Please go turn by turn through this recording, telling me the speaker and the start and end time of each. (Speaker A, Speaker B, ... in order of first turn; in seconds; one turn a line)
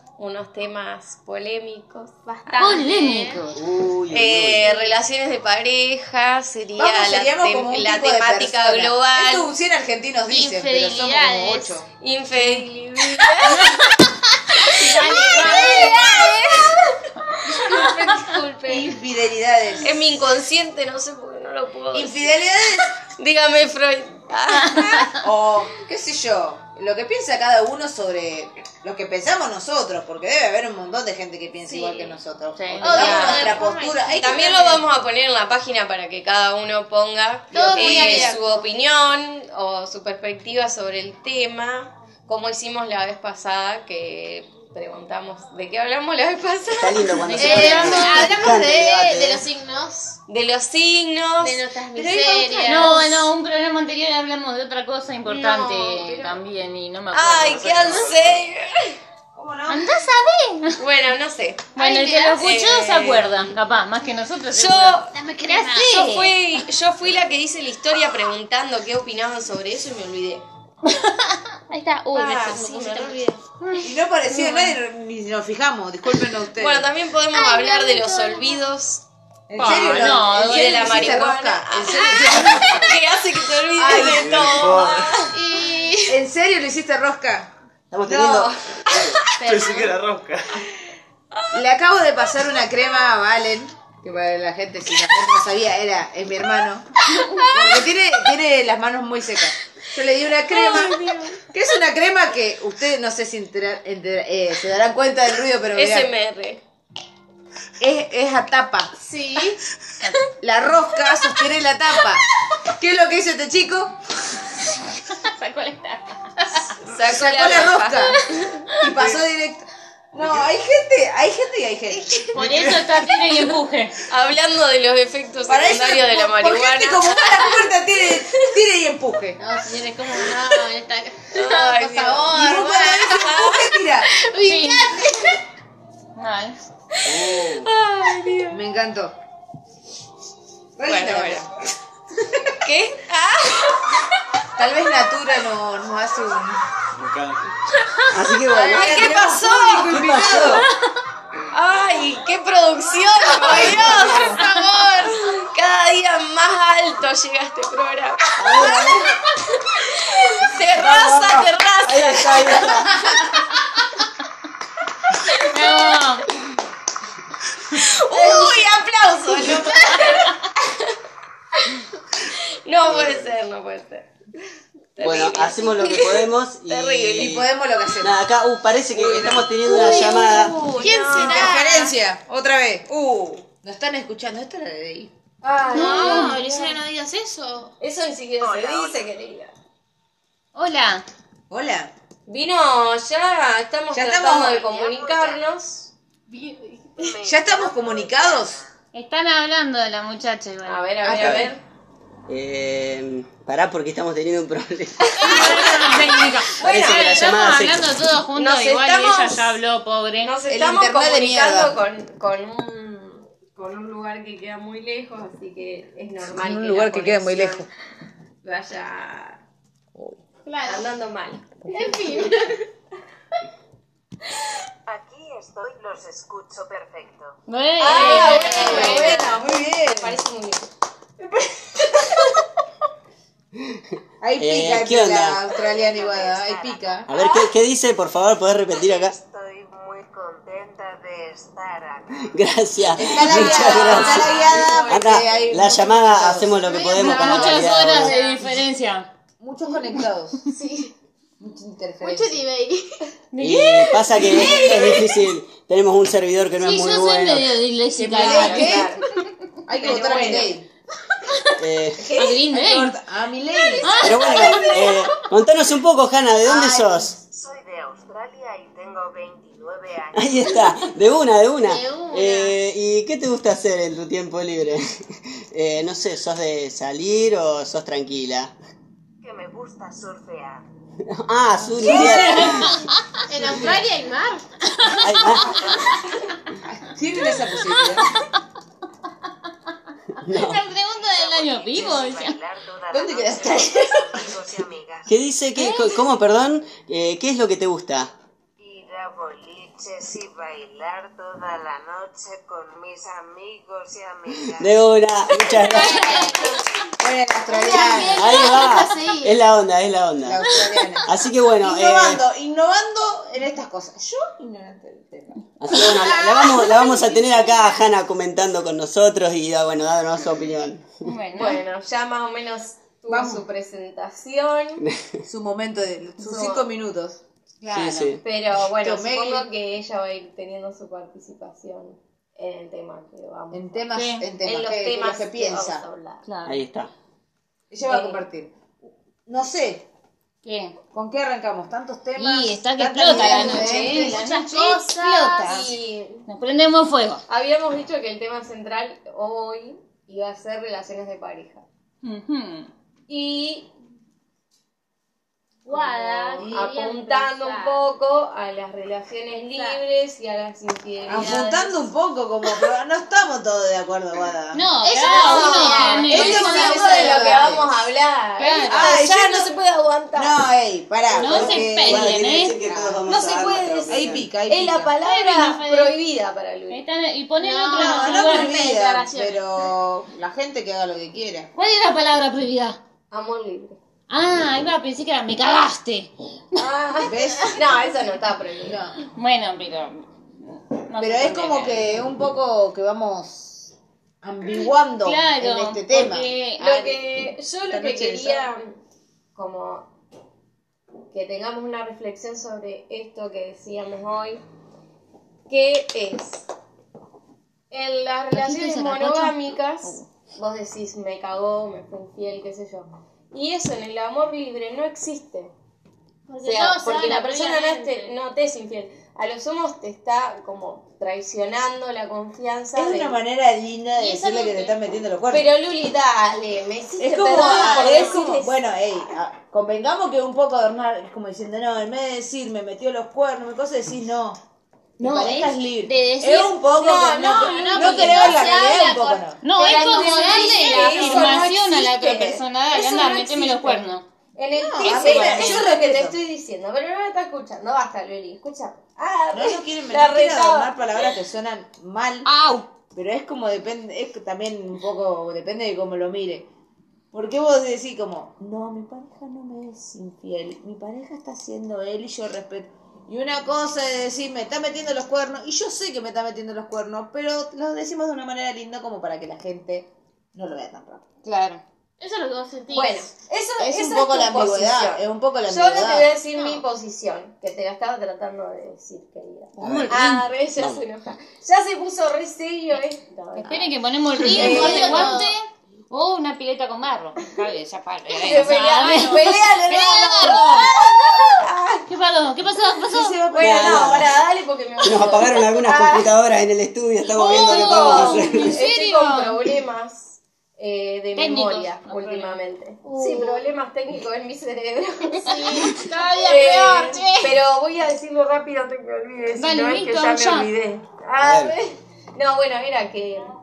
Speaker A: 0.2-2.9
Speaker B: 2.3-3.5
Speaker C: 2.6-3.6
Speaker D: 3.5-4.7
Speaker A: 4.1-9.5
Speaker B: 4.6-5.0
Speaker E: 6.8-11.9
Speaker B: 10.3-11.8
Speaker A: 12.0-13.8
Speaker C: 13.4-13.8
Speaker B: 14.6-16.6
Speaker A: 14.6-18.8
Speaker B: 17.6-18.9
Speaker E: 18.7-19.9
Speaker A: 19.8-22.3
Speaker E: 21.9-23.0
Speaker A: 23.0-25.2
Speaker E: 25.1-34.7
Speaker B: 31.7-32.1
Speaker C: 32.6-33.0
Speaker B: 32.8-34.9
Speaker A: 33.0-33.6
Speaker A: 34.2-47.6
Speaker B: 37.5-38.6
Speaker E: 37.8-38.4
Speaker D: 46.7-49.5
Speaker C: 47.2-48.1
Speaker B: 47.4-50.2
Speaker A: 50.3-53.0
Speaker B: 51.4-53.3
Speaker E: 52.0-52.3
Speaker C: 52.6-58.0
Speaker A: 55.3-56.4
Speaker A: 57.1-59.0
Speaker F: 57.4-58.5
Speaker E: 59.3-60.0
Speaker C: 59.7-60.8
Speaker A: 60.8-63.5
Speaker C: 61.8-66.4
Speaker A: 64.5-70.4
Speaker B: 65.1-66.1
Speaker C: 70.9-71.4
Speaker B: 71.7-73.4
Speaker A: 72.1-73.4
Speaker E: 73.8-76.9
Speaker A: 74.3-74.8
Speaker A: 76.6-79.0
Speaker B: 77.3-78.6
Speaker E: 79.5-82.9
Speaker C: 79.6-81.2
Speaker A: 79.6-85.4
Speaker B: 81.9-82.8
Speaker E: 83.7-84.3
Speaker F: 84.0-85.2
Speaker D: 84.5-85.0
Speaker B: 85.2-86.2
Speaker E: 86.1-87.5
Speaker D: 87.9-89.2
Speaker A: 88.1-89.1
Speaker F: 89.0-90.6
Speaker B: 89.4-90.0
Speaker A: 91.3-91.6
Speaker E: 91.5-96.9
Speaker B: 97.2-97.8
Speaker E: 97.5-101.0
Speaker B: 100.6-101.3
Speaker A: 100.6-101.3
Speaker E: 101.5-106.1
Speaker A: 105.7-106.6
Speaker E: 107.8-108.9
Speaker B: 109.0-109.6
Speaker E: 110.4-114.0
Speaker C: 115.1-116.2
Speaker A: 116.8-118.7
Speaker E: 117.0-118.2
Speaker E: 118.8-122.3
Speaker F: 120.2-120.5
Speaker C: 122.3-124.0
Speaker F: 122.4-123.5
Speaker A: 124.1-127.3
Speaker E: 125.5-129.4
Speaker B: 127.3-127.6
Speaker B: 129.4-133.5
Speaker A: 131.3-132.4
Speaker E: 132.2-134.1
Speaker A: 133.1-133.7
Speaker B: 134.1-135.4
Speaker C: 134.4-135.0
Speaker C: 136.2-136.6
Speaker A: 137.0-138.6
Speaker D: 137.1-137.7
Speaker E: 138.5-139.2
Speaker E: 140.8-141.5
Speaker A: 140.9-141.4
Speaker A: 142.6-144.0
Speaker E: 144.6-146.6
Speaker F: 147.0-147.4
Speaker A: 147.8-150.7
Speaker D: 148.1-150.7
Speaker E: 148.5-150.7
Speaker A: 151.5-163.4
Speaker B: 153.4-155.2
Speaker E: 153.4-154.4
Speaker D: 158.4-159.1
Speaker D: 160.8-163.0
Speaker A: 165.1-165.9
Speaker C: 165.5-166.3
Speaker A: 167.7-170.9
Speaker E: 168.1-168.7
Speaker A: 172.3-174.1
Speaker F: 172.9-173.3
Speaker A: 175.0-177.4
Speaker D: 175.0-177.5
Speaker E: 177.2-178.2
Speaker D: 178.0-180.7
Speaker E: 178.9-179.6
Speaker B: 179.6-181.9
Speaker A: 179.7-181.6
Speaker E: 181.0-185.1
Speaker A: 185.4-186.8
Speaker B: 185.7-187.7
Speaker C: 185.7-186.5
Speaker A: 187.8-189.5
Speaker G: 188.4-189.1
Speaker C: 190.6-191.1
Speaker E: 191.5-191.9
Speaker A: 192.3-195.9
Speaker E: 193.9-194.7
Speaker G: 194.6-195.4
Speaker B: 196.3-196.9
Speaker G: 197.0-198.7
Speaker E: 197.2-198.6
Speaker C: 198.9-201.0
Speaker A: 200.7-201.6
Speaker E: 201.0-201.5
Speaker D: 201.2-201.5
Speaker D: 202.3-205.6
Speaker A: 205.0-207.5
Speaker C: 205.2-210.3
Speaker D: 206.6-207.8
Speaker A: 208.3-209.5
Speaker A: 210.2-217.7
Speaker E: 210.5-211.8
Speaker E: 216.3-217.7
Speaker A: 218.4-219.4
Speaker E: 219.9-220.2
Speaker B: 220.4-220.9
Speaker A: 220.7-222.5
Speaker B: 221.7-222.6
Speaker G: 224.9-227.4
Speaker C: 227.5-229.2
Speaker A: 227.8-230.7
Speaker E: 228.0-230.2
Speaker A: 231.2-232.4
Speaker E: 234.2-237.1
Speaker D: 234.4-235.4
Speaker G: 235.5-237.5
Speaker D: 237.1-239.2
Speaker G: 238.7-242.3
Speaker D: 242.3-248.2
Speaker E: 242.9-246.8
Speaker A: 243.3-245.3
Speaker C: 243.7-244.4
Speaker B: 246.6-248.6
Speaker C: 247.0-249.1
Speaker E: 249.4-250.4
Speaker B: 250.5-250.9
Speaker E: 251.4-252.5
Speaker B: 252.0-253.1
Speaker C: 253.3-254.6
Speaker D: 253.4-257.5
Speaker B: 254.3-255.2
Speaker C: 256.6-258.8
Speaker E: 258.0-259.0
Speaker A: 258.2-259.0
Speaker E: 259.7-260.7
Speaker A: 259.7-260.5
Speaker B: 260.0-260.3
Speaker D: 261.6-262.1
Speaker A: 262.0-262.4
Speaker C: 262.1-262.9
Speaker E: 262.4-264.0
Speaker B: 263.5-265.2
Speaker C: 263.8-264.6
Speaker D: 264.0-267.2
Speaker E: 266.4-267.1
Speaker G: 267.3-270.6
Speaker D: 270.1-278.5
Speaker B: 271.6-272.6
Speaker G: 279.2-280.7
Speaker D: 281.1-282.8
Speaker C: 281.8-283.0
Speaker B: 283.3-284.4
Speaker C: 284.8-285.0
Speaker D: 285.0-285.8
Speaker E: 286.6-288.1
Speaker D: 290.2-290.7
Speaker C: 290.2-292.4
Speaker G: 290.8-295.1
Speaker E: 292.9-294.3
Speaker D: 295.1-298.1
Speaker G: 298.6-304.8
Speaker D: 304.5-306.3
Speaker B: 305.4-306.6
Speaker E: 307.0-308.4
Speaker B: 307.5-309.4
Speaker D: 308.1-310.4
Speaker E: 310.2-311.1
Speaker B: 310.6-311.1
Speaker D: 311.1-312.2
Speaker E: 311.6-315.4
Speaker D: 315.6-321.0
Speaker B: 315.7-317.9
Speaker C: 321.0-321.6
Speaker A: 321.4-324.9
Speaker E: 323.1-323.5
Speaker D: 324.8-325.2
Speaker E: 325.3-329.5
Speaker A: 326.2-326.7
Speaker D: 327.7-328.2
Speaker A: 328.2-333.9
Speaker E: 333.5-335.9
Speaker C: 333.9-334.3
Speaker A: 334.4-336.2
Speaker C: 336.2-336.6
Speaker D: 336.5-336.9
Speaker E: 337.7-338.5
Speaker A: 337.9-338.2
Speaker E: 339.3-339.9
Speaker C: 340.4-340.8
Speaker E: 340.9-345.6
Speaker C: 342.2-344.5
Speaker A: 343.1-346.3
Speaker B: 343.4-345.7
Speaker C: 346.3-347.2
Speaker A: 347.3-351.6
Speaker C: 352.0-352.7
Speaker A: 353.1-353.7
Speaker B: 355.7-357.9
Speaker A: 355.7-361.9
Speaker E: 356.4-356.7
Speaker B: 359.5-359.8
Speaker E: 361.1-364.6
Speaker C: 364.5-366.8
Speaker B: 364.8-367.4
Speaker A: 365.0-370.4
Speaker E: 366.1-367.7
Speaker C: 368.4-368.7
Speaker B: 368.4-368.9
Speaker E: 368.7-369.6
Speaker E: 370.1-373.0
Speaker C: 371.1-372.6
Speaker D: 371.1-374.3
Speaker A: 373.1-376.8
Speaker E: 373.9-375.0
Speaker C: 375.0-376.0
Speaker C: 376.7-378.5
Speaker B: 377.4-379.4
Speaker E: 377.8-381.5
Speaker C: 381.6-382.8
Speaker A: 383.1-383.8
Speaker C: 384.1-386.1
Speaker A: 386.6-388.8
Speaker E: 387.0-387.6
Speaker E: 388.6-389.0
Speaker C: 389.1-392.1
Speaker E: 391.0-396.8
Speaker C: 395.0-397.0
Speaker A: 396.6-398.7
Speaker E: 397.7-398.5
Speaker A: 399.4-399.9
Speaker A: 401.1-404.4
Speaker A: 405.5-406.4
Speaker A: 407.7-415.5
Speaker C: 408.3-410.1
Speaker B: 416.3-418.2
Speaker A: 416.4-423.2
Speaker E: 422.7-425.5
Speaker B: 424.0-424.8
Speaker A: 425.3-428.6
Speaker E: 427.0-434.4
Speaker B: 427.4-428.2
Speaker C: 435.0-436.6
Speaker E: 435.0-439.4
Speaker A: 436.7-438.5
Speaker B: 437.2-441.4
Speaker C: 439.4-444.0
Speaker A: 439.6-443.8
Speaker E: 440.8-441.5
Speaker A: 444.4-450.7
Speaker B: 444.6-445.3
Speaker E: 444.8-446.2
Speaker C: 445.0-445.6
Speaker E: 449.3-452.3
Speaker B: 452.3-452.7
Speaker E: 452.9-456.5
Speaker E: 457.1-471.0
Speaker C: 471.2-471.6
Speaker B: 472.0-473.1
Speaker A: 472.7-483.7
Speaker E: 473.6-476.1
Speaker B: 476.3-476.6
Speaker C: 479.6-480.1
Speaker D: 479.6-480.8
Speaker C: 483.4-490.7
Speaker A: 484.3-485.2
Speaker B: 484.4-485.3
Speaker A: 488.2-491.9
Speaker B: 488.6-489.2
Speaker C: 491.9-493.4
Speaker E: 492.9-494.0
Speaker A: 493.3-496.1
Speaker D: 493.4-494.1
Speaker D: 494.8-498.6
Speaker C: 497.1-499.4
Speaker A: 497.2-511.6
Speaker C: 501.2-502.4
Speaker B: 502.8-503.5
Speaker B: 505.2-507.4
Speaker C: 509.4-510.5
Speaker D: 511.2-511.6
Speaker B: 511.4-511.7
Speaker A: 512.1-513.3